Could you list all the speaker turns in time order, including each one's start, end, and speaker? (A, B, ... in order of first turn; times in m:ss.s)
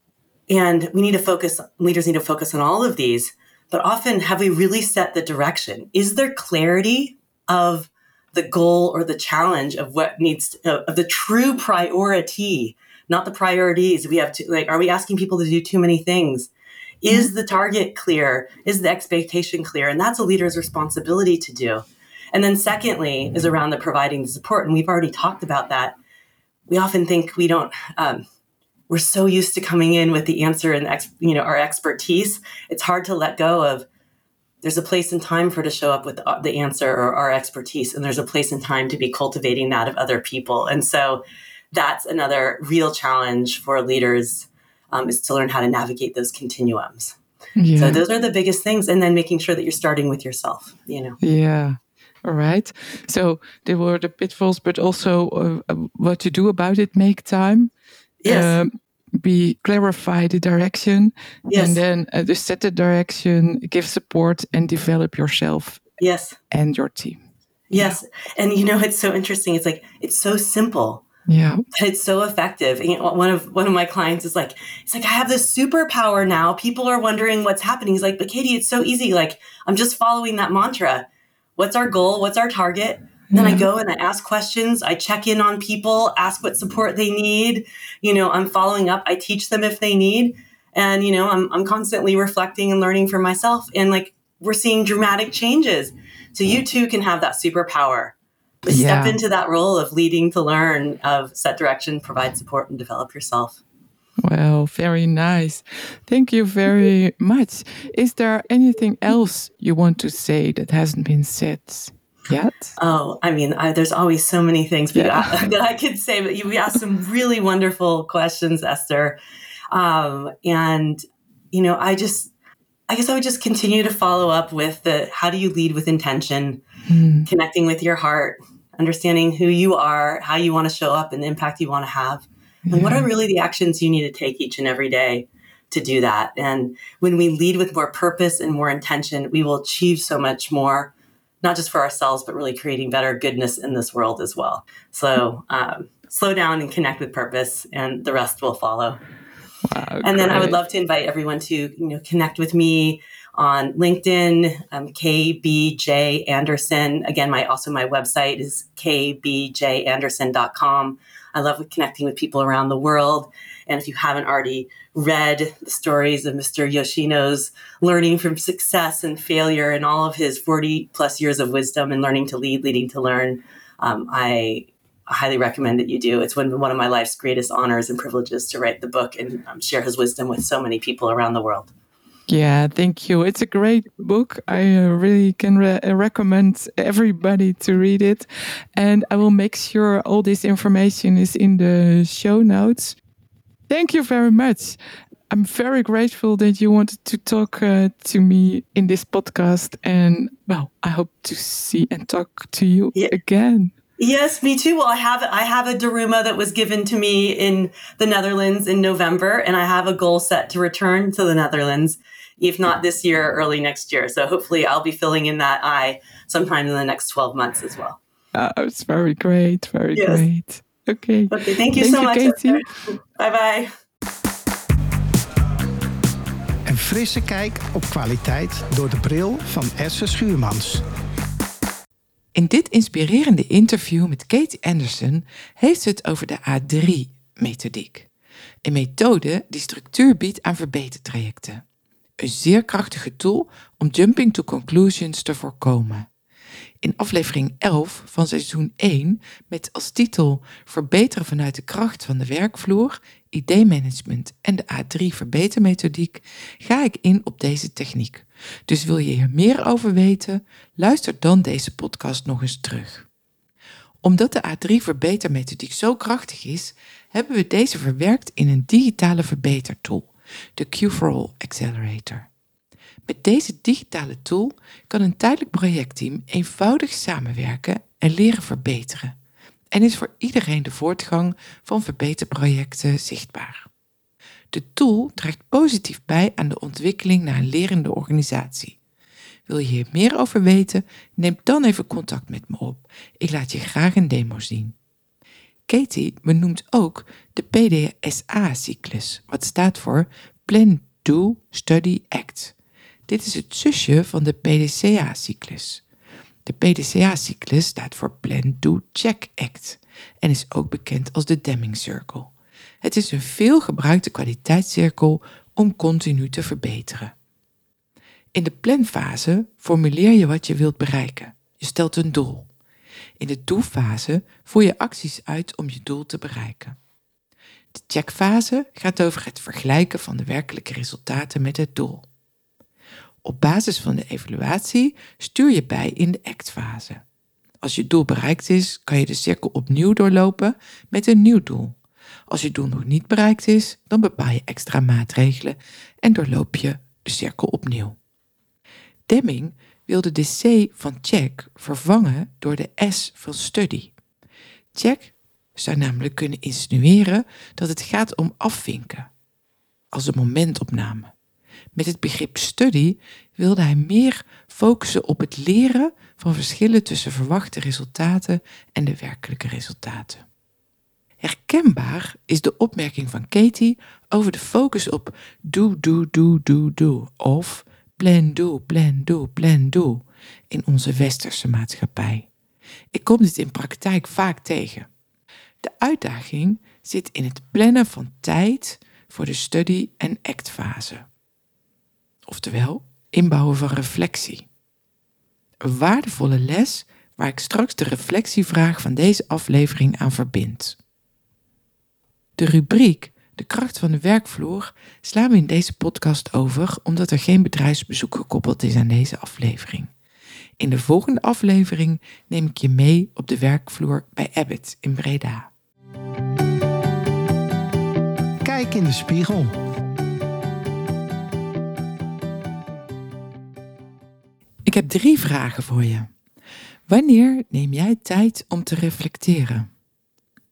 0:00.5-0:16.5 A
0:17.0-0:26.0 A
0:26.7-0:28.2 A
0:28.9-0:33.8 A
0:34.6-0:41.2 A
0:41.7-0:47.2 A
0:47.6-0:48.0 B
0:47.7-0:51.2 A
0:51.2-0:57.7 B
0:58.2-0:58.6 A
0:58.2-1:05.8 B
1:01.5-1:01.8 A
1:06.0-1:06.4 A
1:06.5-1:07.2 B
1:07.7-1:11.0 A
1:11.3-1:11.6 B
1:11.7-1:21.0 A
1:21.6-1:43.6 A
1:23.3-1:23.6 B
1:38.7-1:39.2 B
1:44.2-1:52.8 B
1:52.8-1:59.2 A
1:54.9-1:55.5 B
1:59.7-2:02.3 A
2:02.9-2:06.6 A
2:06.9-2:07.3 B
2:07.2-2:29.0 A
2:12.6-2:13.1 B
2:29.6-2:30.6 B
2:30.0-3:01.7 A
3:02.3-3:13.0 B
3:13.7-3:14.8 B
3:15.3-3:23.7 B
3:24.0-3:38.0 A
3:38.3-3:42.6 B
3:39.9-3:40.2 A
3:41.3-3:43.7 A
3:46.6-3:50.8 C
3:52.3-3:58.1 B
3:58.6-4:01.6 B
4:02.2-4:06.1 B
4:06.8-4:23.1 B
4:24.0-4:32.3 B
4:33.0-4:39.2 B
4:39.7-4:43.7 B
4:44.5-4:48.8 B
4:49.5-4:54.7 B
4:55.7-5:02.5 B
5:03.1-5:05.8 B
5:06.4-5:12.3 B
5:12.8-5:17.1 B
5:18.3-5:22.5 B
5:23.2-5:26.8 B
5:27.7-5:32.0 B
5:33.2-5:37.0 B
5:37.6-5:41.8 B
5:42.3-5:48.0 B
5:49.1-5:53.9 B
5:54.7-5:59.1 B
5:59.9-6:01.1 B
6:01.7-6:10.2 B
6:11.2-6:22.3 B
6:22.9-6:24.9 B
6:25.6-6:31.1 B
6:32.2-6:34.5 B
6:35.6-6:40.8 B
6:42.4-6:49.9 B
6:50.6-6:55.5 B
6:58.4-6:59.5 C
7:04.6-7:06.1 B
7:06.9-7:09.7 B